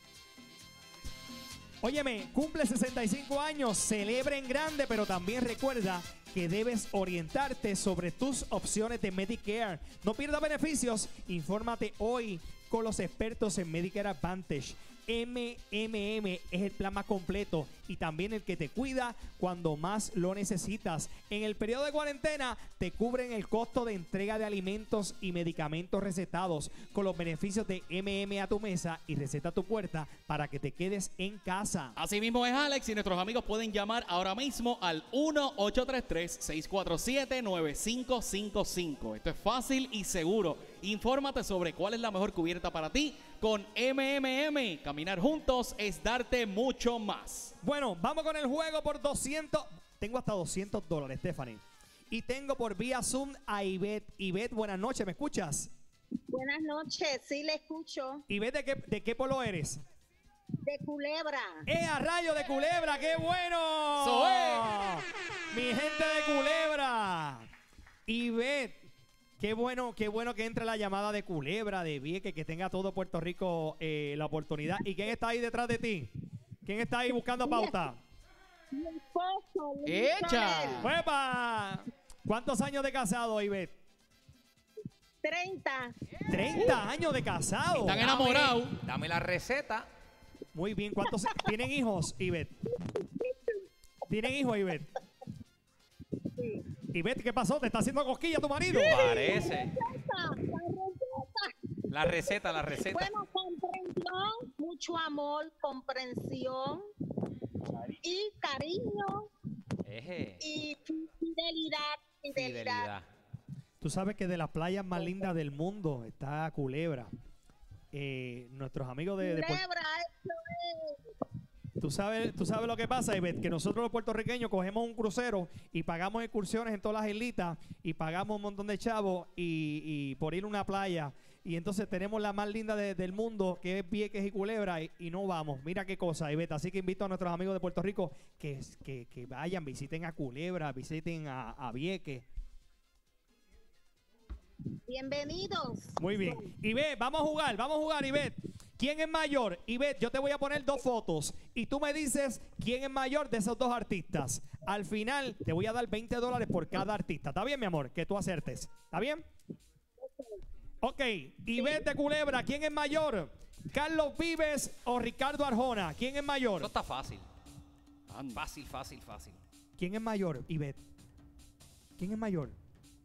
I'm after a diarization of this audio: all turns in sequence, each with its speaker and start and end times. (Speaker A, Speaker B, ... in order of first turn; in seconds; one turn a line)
Speaker A: 1.8-31.9
Speaker B: 31.9-47.5
Speaker A: 47.6-55.7
Speaker C: 56.3-58.2
Speaker A: 58.3-59.8
Speaker C: 60.6-61.7
Speaker A: 61.7-67.5
Speaker B: 64.0-64.7
Speaker A: 68.1-68.8
Speaker A: 69.4-76.1
Speaker A: 76.6-78.0
Speaker C: 77.4-77.8
Speaker C: 78.7-80.9
Speaker B: 79.8-80.9
Speaker A: 80.8-83.7
Speaker C: 85.2-85.9
Speaker A: 86.3-88.1
Speaker C: 86.5-86.8
Speaker B: 87.7-88.8
Speaker D: 88.0-89.9
Speaker A: 90.5-92.5
Speaker C: 92.8-93.6
Speaker A: 94.1-94.9
Speaker C: 96.3-96.6
Speaker A: 96.9-99.1
Speaker C: 98.7-101.5
Speaker D: 98.8-99.7
Speaker D: 101.9-103.1
Speaker C: 102.5-106.8
Speaker C: 108.0-109.3
Speaker D: 109.8-110.4
Speaker C: 110.4-112.9
Speaker D: 112.3-113.1
Speaker A: 113.8-117.1
Speaker C: 115.0-115.3
Speaker A: 117.9-119.6
Speaker C: 119.2-121.0
Speaker A: 121.8-142.2
Speaker C: 144.9-146.5
Speaker A: 146.0-159.2
Speaker C: 160.0-160.4
Speaker A: 160.8-166.7
Speaker C: 161.6-161.8
Speaker D: 166.6-167.3
Speaker B: 168.1-168.4
Speaker D: 168.3-169.4
Speaker A: 169.8-170.8
Speaker A: 172.0-172.6